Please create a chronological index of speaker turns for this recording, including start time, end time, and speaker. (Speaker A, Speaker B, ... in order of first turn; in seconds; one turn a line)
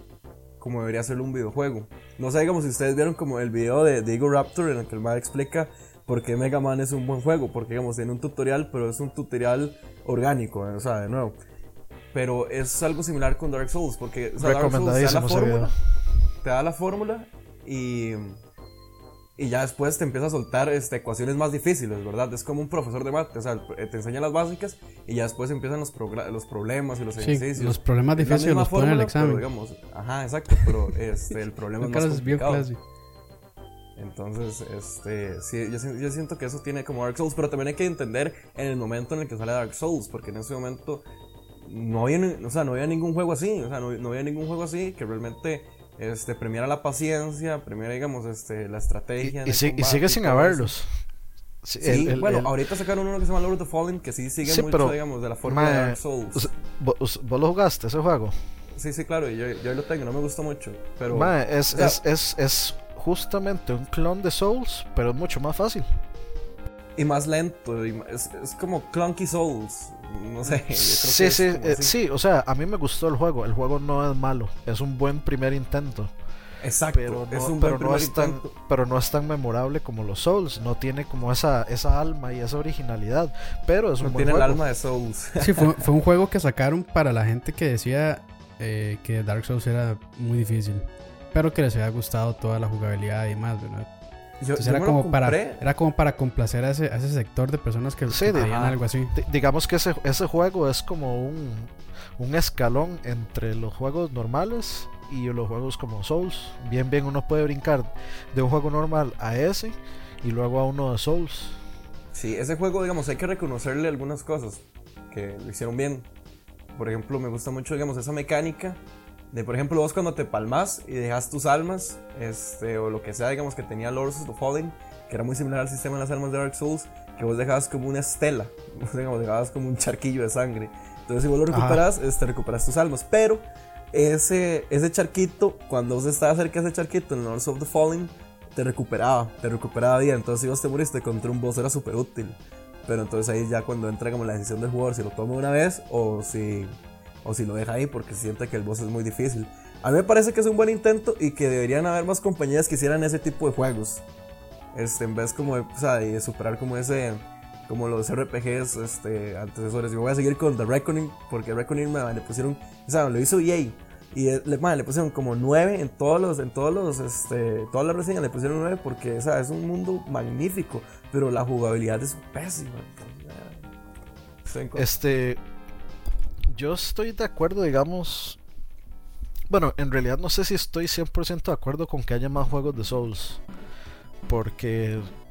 Speaker A: 0.6-11.4
Speaker A: 12.1-15.7
Speaker B: 14.4-15.7
Speaker A: 16.4-18.4
Speaker A: 19.4-32.7
Speaker C: 27.2-29.4
Speaker C: 31.8-32.8
Speaker A: 34.0-41.0
Speaker A: 41.6-50.7
Speaker B: 49.2-50.9
Speaker B: 51.6-52.5
Speaker A: 51.8-56.5
Speaker B: 54.4-58.3
Speaker A: 58.8-62.0
Speaker B: 61.1-65.9
Speaker A: 67.0-71.9
Speaker B: 70.5-76.1
Speaker A: 76.6-78.5
Speaker B: 76.9-84.6
Speaker A: 84.0-85.9
Speaker C: 85.4-93.9
Speaker A: 94.4-95.7
Speaker C: 94.6-99.2
Speaker B: 98.1-98.6
Speaker A: 98.3-98.8
Speaker B: 99.1-111.6
Speaker A: 112.1-116.1
Speaker A: 116.8-118.8
Speaker A: 119.3-154.0
Speaker B: 131.5-131.8
Speaker A: 154.7-173.7
Speaker A: 174.4-174.9
Speaker B: 174.8-175.4
Speaker B: 176.5-178.4
Speaker B: 179.5-183.4
Speaker B: 184.3-185.1